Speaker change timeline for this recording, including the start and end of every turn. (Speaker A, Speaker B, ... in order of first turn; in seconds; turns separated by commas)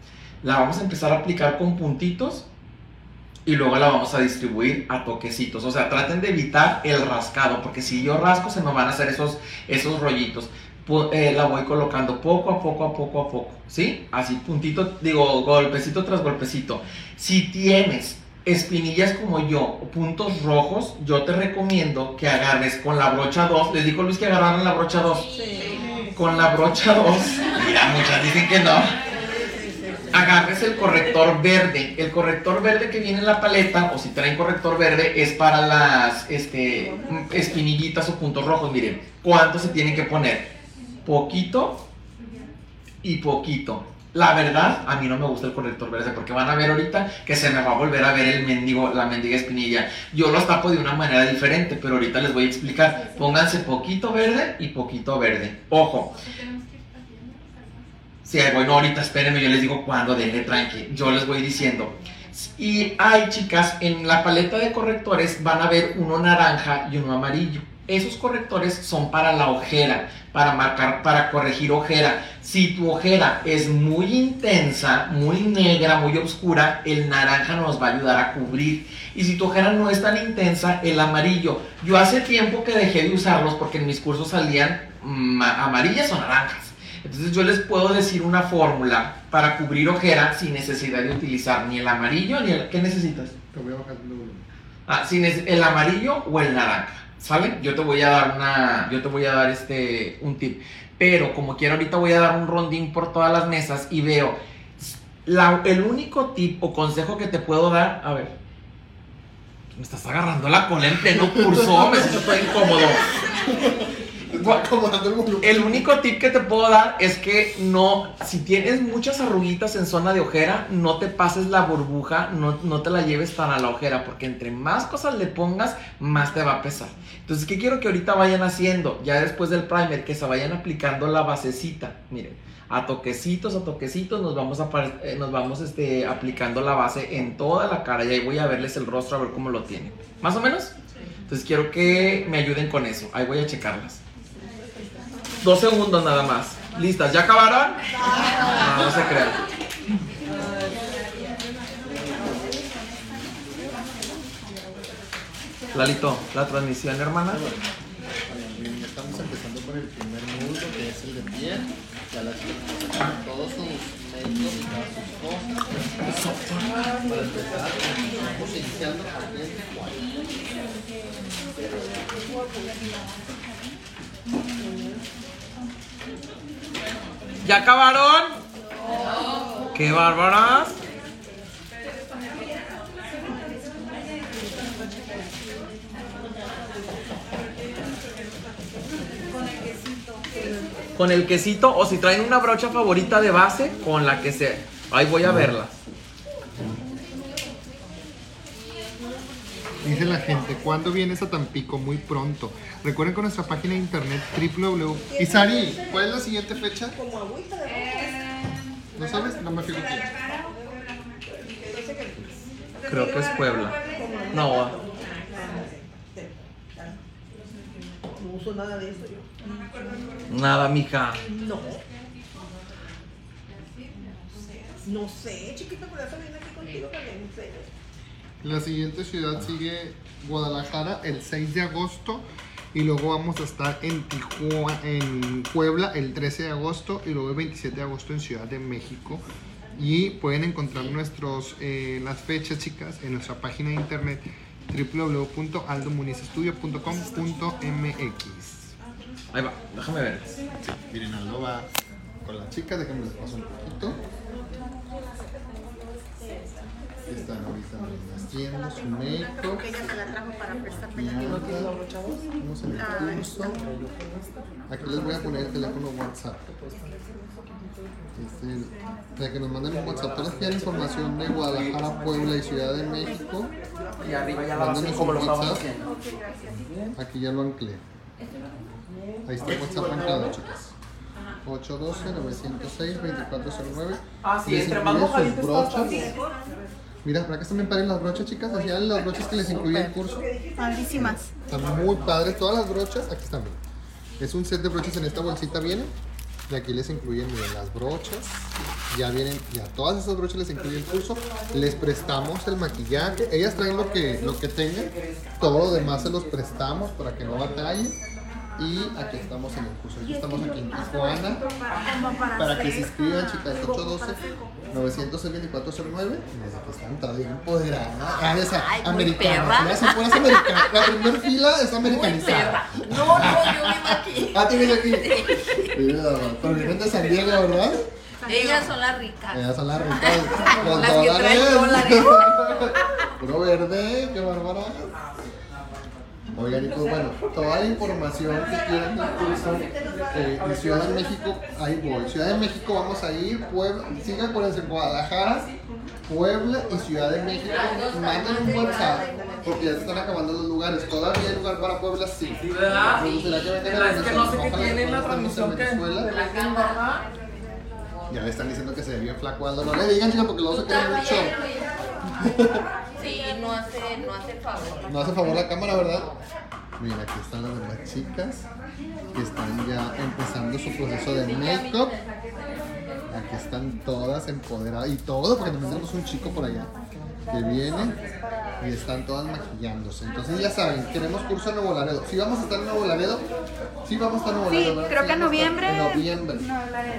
Speaker A: 0.4-2.5, Speaker A: 3.5-25.3, Speaker A: 26.1-28.9, Speaker A: 30.1-40.5, Speaker A: 41.0-41.8, Speaker A: 43.0-56.2, Speaker A: 58.2-93.3, Speaker B: 93.5-94.4, Speaker A: 94.9-108.3, Speaker A: 109.8-113.0, Speaker B: 111.5-115.9, Speaker A: 114.4-114.7, Speaker A: 115.4-140.7, Speaker A: 141.3-144.0, Speaker A: 145.4-147.8, Speaker A: 148.4-149.4, Speaker A: 155.7-157.4, Speaker B: 157.3-157.7, Speaker B: 158.3-166.3, Speaker A: 166.0-166.9, Speaker B: 167.1-170.1, Speaker A: 177.4-178.4, Speaker A: 179.7-180.8, Speaker A: 191.0-195.8, Speaker B: 195.2-195.6, Speaker B: 199.8-207.0, Speaker B: 209.0-210.1, Speaker A: 212.9-213.8, Speaker A: 214.3-214.8, Speaker A: 220.3-221.2, Speaker C: 224.8-227.7, Speaker B: 228.4-239.2, Speaker B: 239.8-248.8, Speaker A: 249.3-250.4, Speaker B: 250.6-251.7, Speaker B: 252.2-254.0, Speaker B: 257.1-260.1, Speaker B: 260.6-261.8, Speaker B: 262.4-263.6, Speaker B: 264.7-266.5, Speaker B: 268.2-273.5, Speaker A: 274.1-275.8, Speaker B: 274.5-275.6, Speaker B: 276.9-277.8, Speaker B: 279.3-280.7, Speaker B: 281.4-286.1, Speaker B: 287.0-290.3, Speaker D: 290.6-291.1, Speaker B: 290.9-293.6, Speaker B: 294.2-295.9, Speaker B: 296.5-308.0, Speaker B: 308.6-311.4, Speaker B: 312.4-327.8, Speaker D: 318.9-319.3, Speaker D: 323.6-324.0, Speaker D: 328.3-329.3, Speaker B: 329.3-334.9, Speaker D: 330.9-331.2, Speaker B: 336.3-345.5, Speaker B: 346.1-356.1, Speaker A: 353.9-357.0, Speaker B: 358.1-361.4, Speaker B: 362.2-362.6, Speaker D: 363.1-364.4, Speaker B: 364.9-366.1, Speaker B: 366.8-368.5, Speaker B: 369.1-372.0, Speaker B: 373.1-376.7, Speaker B: 377.3-378.0, Speaker B: 378.6-383.2, Speaker B: 383.9-386.5, Speaker D: 384.7-385.8